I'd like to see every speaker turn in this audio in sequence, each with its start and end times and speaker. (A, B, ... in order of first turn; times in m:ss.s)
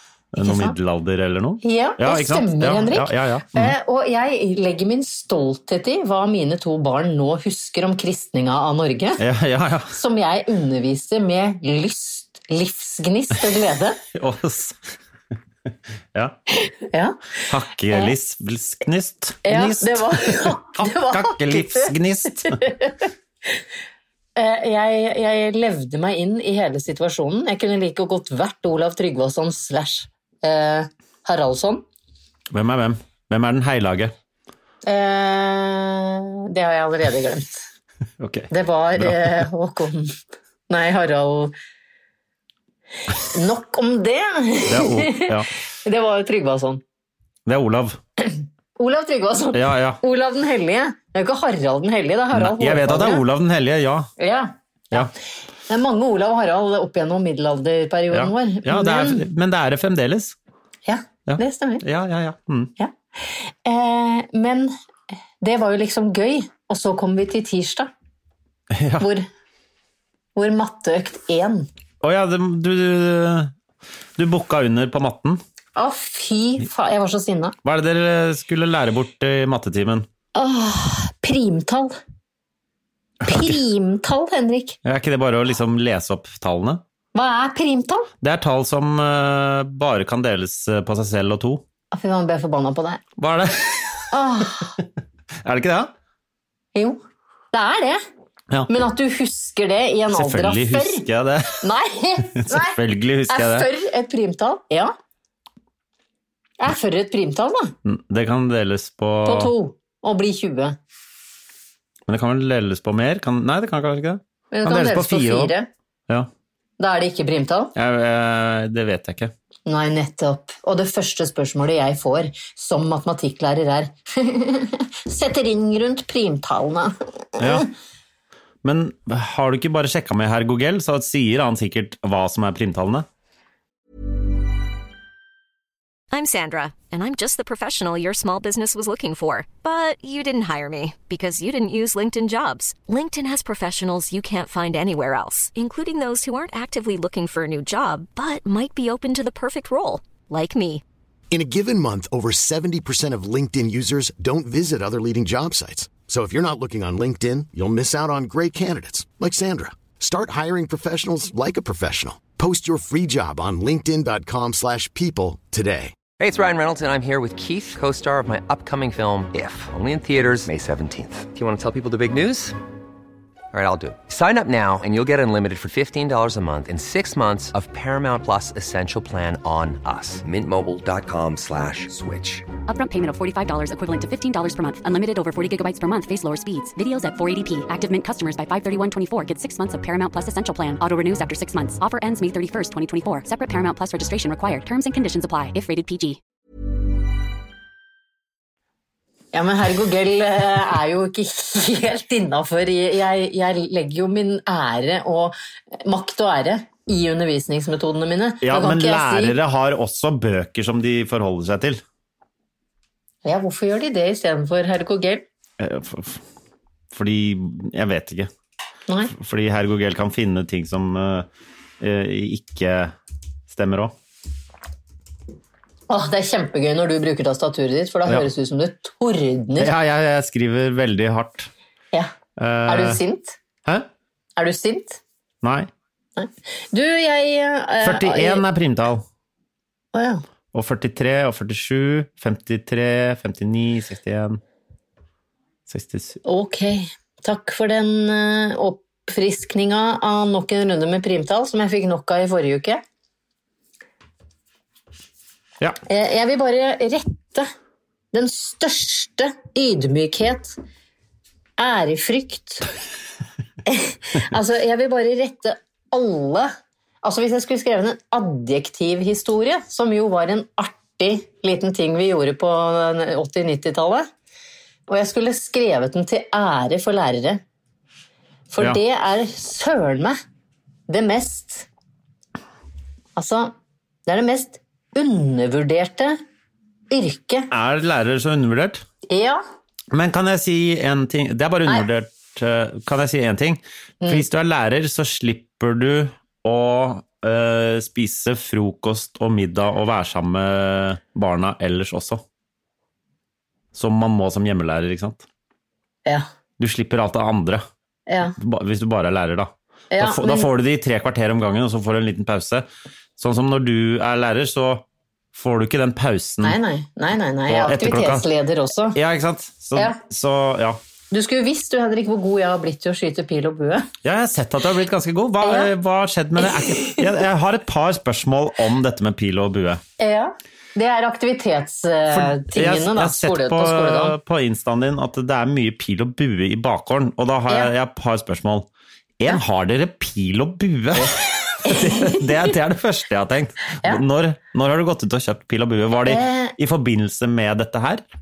0:00.4-0:03.8 A
0:00.4-0:00.8 B
0:01.6-0:09.2 B
0:09.2-0:10.0 A
0:09.9-0:14.0 B
0:14.1-0:14.9 A
0:16.5-0:17.2 B
0:17.5-0:22.6 A
0:19.4-0:23.6 B
0:24.4-0:31.8 B
0:32.5-0:34.1 A
0:34.8-0:37.6 B
0:38.2-0:39.4 A
0:38.5-0:40.2 B
0:40.7-0:41.5 B
0:43.2-0:46.8 B
0:44.7-0:45.5 A
0:47.5-0:48.0 A
0:48.2-0:53.2 B
0:49.5-0:50.0 A
0:52.3-0:54.1 A
0:54.2-0:55.1 B
0:55.7-0:59.3 B
0:58.1-1:00.4 A
1:00.9-1:01.8 B
1:01.3-1:02.7 A
1:02.8-1:04.7 B
1:05.4-1:07.9 B
1:08.7-1:09.1 A
1:09.0-1:09.3 B
1:10.4-1:11.7 B
1:12.0-1:13.5 A
1:14.2-1:15.4 A
1:15.8-1:17.6 B
1:17.6-1:20.1 A
1:20.4-1:22.0 B
1:23.2-1:23.6 A
1:23.2-1:24.8 B
1:24.8-1:26.8 A
1:27.2-1:28.1 B
1:28.2-1:31.6 A
1:31.9-1:33.0 B
1:33.2-1:34.8 A
1:34.1-1:34.7 B
1:35.4-1:35.9 A
1:36.8-1:37.0 B
1:37.5-1:38.0 B
1:38.7-1:41.0 B
1:40.1-1:41.7 A
1:41.6-1:42.8 B
1:42.3-1:43.7 A
1:43.3-1:44.9 B
1:46.6-1:47.8 B
1:47.8-1:49.5 A
1:49.2-1:50.8 B
1:52.1-1:55.5 A
1:54.5-1:55.7 B
1:56.8-1:57.7 B
1:57.8-1:59.3 A
1:59.7-2:07.7 B
2:07.4-2:07.7 A
2:08.6-2:13.1 A
2:16.1-2:30.8 C
2:31.3-2:46.0 D
2:46.2-2:52.6 E
2:53.5-3:02.4 E
3:02.7-3:16.2 F
3:19.3-3:29.4 B
3:28.4-3:31.8 A
3:33.2-3:35.2 B
3:35.6-3:36.2 A
3:36.9-3:38.3 A
3:38.9-3:39.1 B
3:39.1-3:41.3 A
3:41.8-3:43.0 A
3:43.5-3:43.9 A
3:45.9-3:49.7 B
3:49.6-3:51.5 A
3:52.4-3:53.0 A
3:52.7-3:53.4 B
3:54.4-3:55.0 B
3:55.4-3:55.7 A
3:56.2-3:58.4 B
3:57.8-3:59.0 A
3:59.9-4:00.2 B
4:00.5-4:04.4 A
4:05.7-4:06.2 A
4:06.2-4:12.8 B
4:15.8-4:17.5 B
4:18.1-4:20.6 B
4:21.6-4:22.7 B
4:23.7-4:26.5 B
4:27.0-4:34.1 B
4:34.9-4:37.4 B
4:38.5-4:40.2 B
4:40.9-4:41.7 B
4:43.2-4:43.5 B
4:44.1-4:46.2 B
4:46.9-4:47.5 B
4:47.5-4:48.8 A
4:49.1-4:49.4 B
4:49.9-5:02.2 A
4:54.0-4:54.3 B
5:03.7-5:05.2 A
5:06.6-5:07.6 A
5:08.1-5:08.4 B
5:08.4-5:12.7 A
5:09.9-5:10.5 B
5:13.2-5:16.6 A
5:16.4-5:19.0 B
5:17.5-5:18.3 A
5:18.9-5:20.8 A
5:21.1-5:23.9 B
5:24.0-5:29.8 A
5:25.4-5:25.7 B
5:26.5-5:27.0 B
5:30.0-5:34.2 B
5:32.1-5:38.7 A
5:39.2-5:48.0 A
5:41.6-5:42.5 B
5:46.0-5:46.6 B